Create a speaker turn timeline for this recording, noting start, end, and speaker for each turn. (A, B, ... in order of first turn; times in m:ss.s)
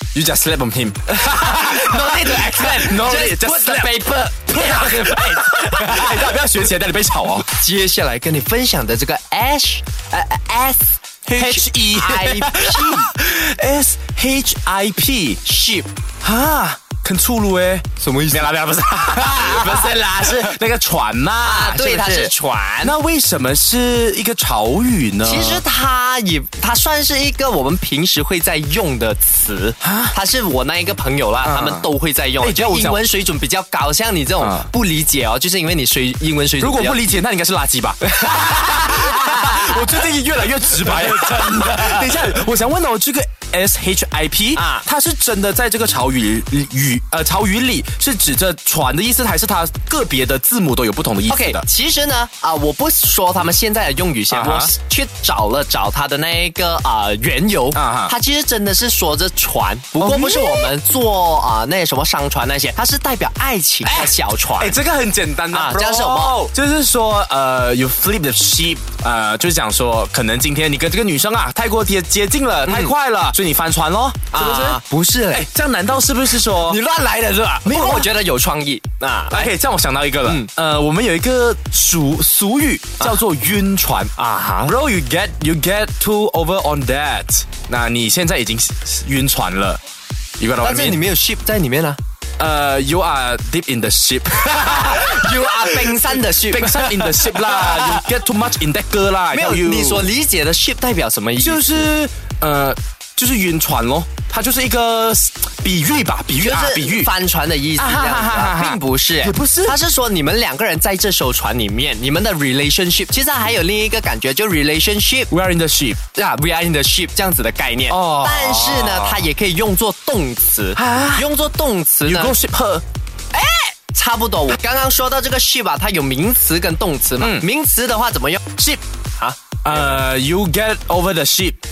0:00.1-0:07.5 A
0:01.1-0:06.4 B
0:07.5-0:13.1 B
0:11.3-0:15.4 A
0:15.4-0:15.9 B
0:16.2-0:25.6 A
0:18.0-0:20.5 B
0:21.4-0:23.0 B
0:25.2-0:37.1 B
0:29.8-0:30.1 A
0:31.4-0:31.9 A
0:32.4-0:33.0 A
0:34.4-0:34.7 A
0:36.6-0:51.6 A
0:38.1-0:40.1 B
0:40.8-0:42.0 B
0:44.5-0:44.8 B
0:51.3-1:04.8 B
0:54.3-0:54.7 A
0:57.7-0:58.1 A
1:00.0-1:00.7 A
1:03.8-1:14.8 A
1:05.5-1:06.4 B
1:12.6-1:12.9 B
1:14.3-1:15.4 B
1:15.3-1:16.8 A
1:16.6-1:19.5 B
1:17.6-1:18.1 A
1:19.3-1:29.8 A
1:24.2-1:24.7 B
1:30.4-1:31.0 A
1:30.6-1:32.0 B
1:32.4-1:40.1 A
1:34.6-1:38.1 B
1:39.3-1:41.9 B
1:41.4-1:47.1 A
1:46.4-1:55.3 B
1:47.8-1:49.8 A
1:55.3-1:56.0 A
1:56.1-2:02.4 B
1:57.9-1:59.2 A
2:00.8-2:01.2 A
2:02.0-2:02.8 A
2:03.3-2:08.4 B
2:07.2-2:07.4 A
2:09.2-2:10.0 B
2:09.6-2:11.6 A